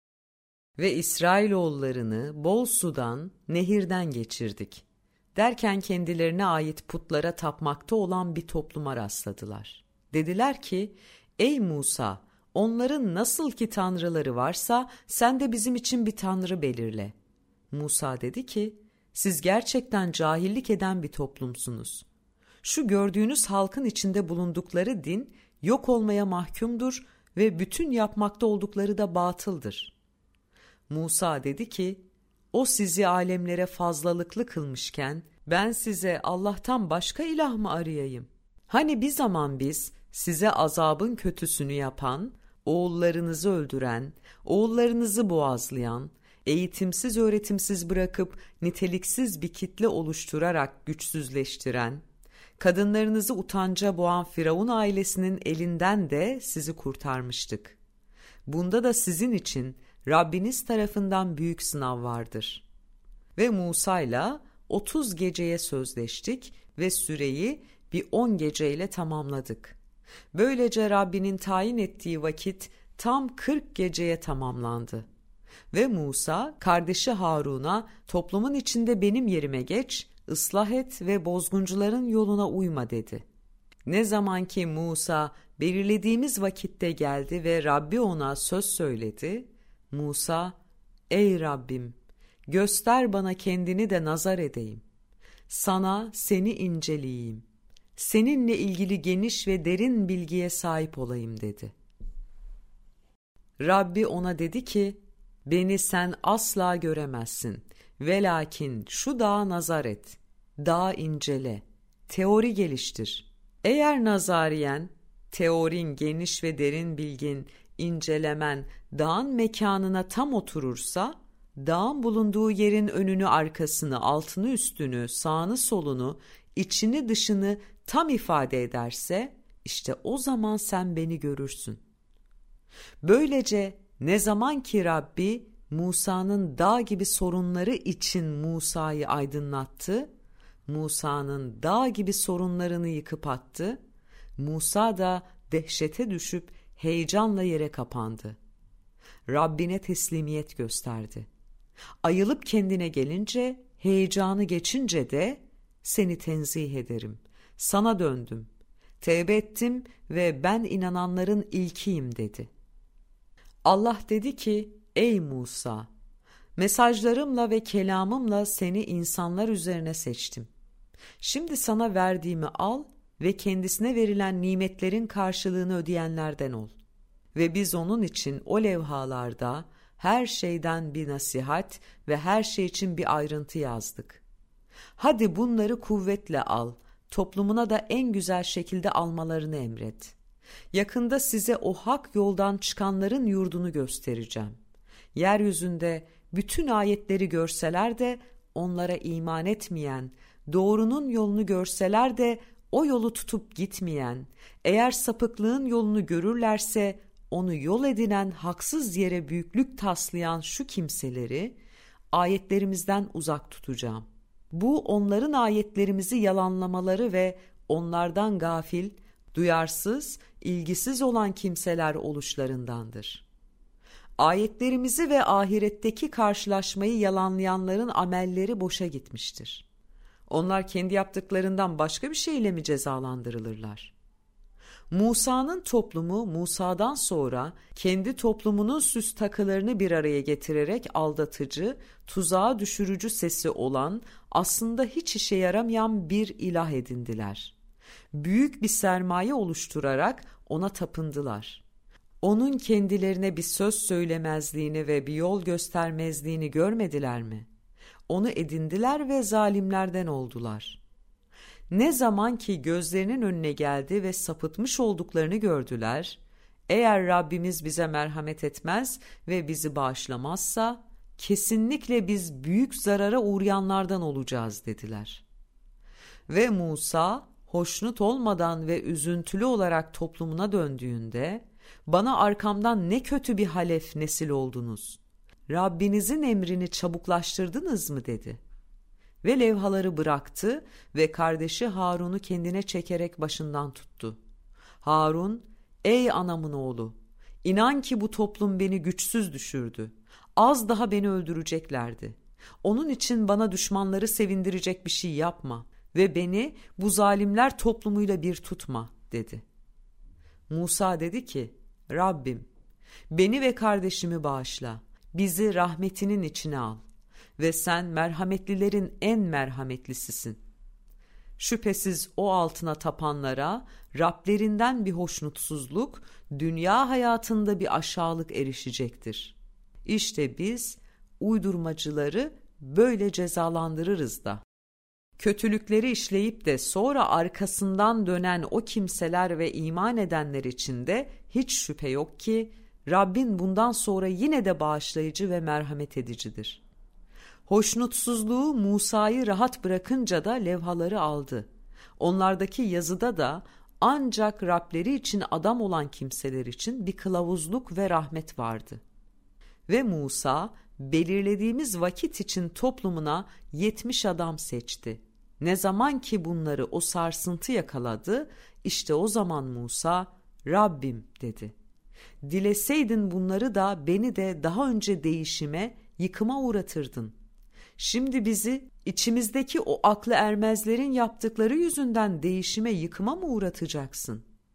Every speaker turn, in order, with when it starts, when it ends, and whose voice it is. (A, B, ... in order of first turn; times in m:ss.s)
0:00.8-0:04.8 A
0:05.4-0:17.1 A
0:17.7-0:22.1 A
0:22.6-0:29.9 A
0:30.9-0:52.0 A
0:52.6-0:57.8 A
0:58.5-1:02.6 A
1:03.4-1:09.8 A
1:10.3-1:15.1 A
1:15.7-1:23.2 A
1:23.9-1:30.6 A
1:31.1-1:32.0 A
1:32.5-1:34.8 A
1:35.5-1:37.4 A
1:38.0-1:41.8 A
1:43.6-2:11.8 A
2:13.0-2:20.1 A
2:20.7-2:23.8 A
2:24.4-2:28.4 A
2:29.3-2:31.3 A
2:32.0-2:38.5 A
2:39.0-2:42.5 A
2:43.6-2:45.9 A
2:46.6-2:50.5 A
2:51.2-2:56.7 A
2:57.3-3:04.2 A
3:05.0-3:10.2 A
3:10.7-3:14.6 A
3:15.1-3:31.6 A
3:32.1-3:43.2 A
3:44.2-3:49.6 A
3:50.3-3:53.9 A
3:54.9-4:07.6 A
4:08.1-4:11.6 A
4:12.2-4:17.5 A
4:18.1-4:20.8 A
4:21.7-4:35.2 A
4:36.3-4:48.4 A
4:49.2-4:54.2 A
4:54.8-5:09.4 A
5:10.5-5:12.5 A
5:13.1-5:16.8 A
5:17.4-5:20.4 A
5:21.4-5:34.4 A
5:35.2-5:46.6 A
5:47.5-5:58.8 A
5:59.7-6:11.5 A
6:12.2-6:17.2 A
6:17.8-6:24.2 A